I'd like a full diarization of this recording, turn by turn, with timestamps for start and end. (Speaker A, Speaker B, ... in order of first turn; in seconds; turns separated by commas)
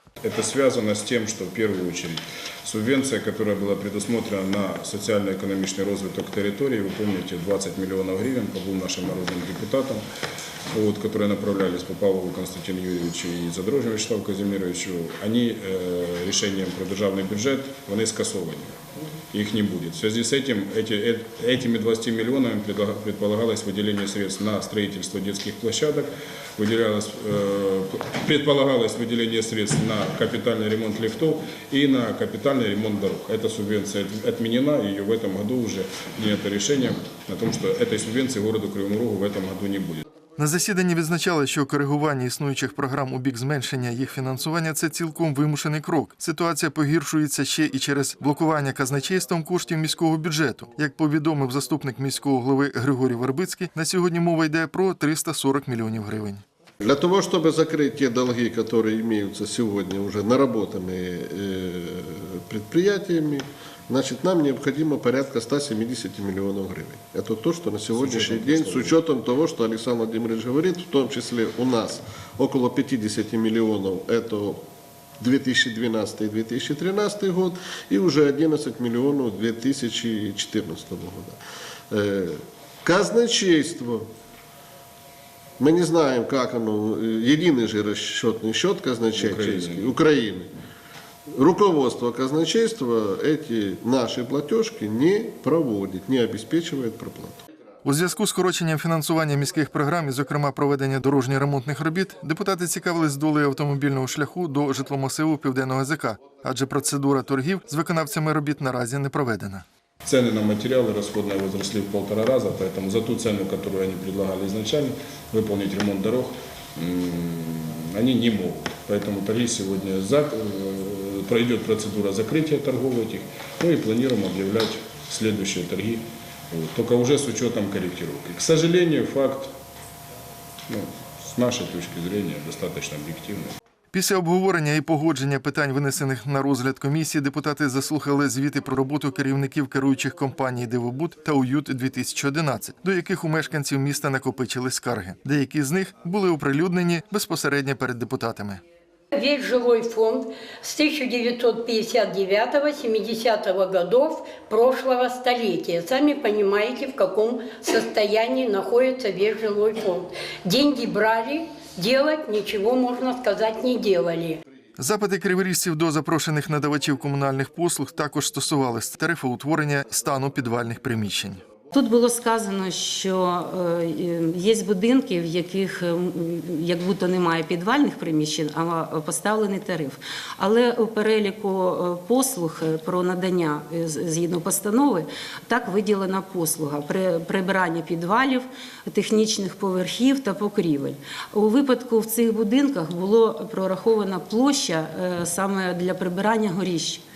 Speaker A: 0.2-10.0, Speaker A: 10.7-18.8, Speaker A: 19.3-40.0, Speaker B: 40.4-56.4, Speaker C: 56.8-74.6, Speaker A: 67.9-69.0, Speaker C: 75.2-81.4, Speaker C: 81.9-84.1, Speaker C: 85.6-90.5, Speaker A: 89.2-90.0, Speaker C: 91.3-97.4, Speaker B: 97.8-109.7, Speaker A: 110.1-129.5, Speaker A: 130.7-133.5, Speaker B: 133.9-148.6, Speaker D: 149.1-164.4, Speaker B: 164.8-171.4, Speaker E: 171.7-191.0, Speaker E: 191.6-197.0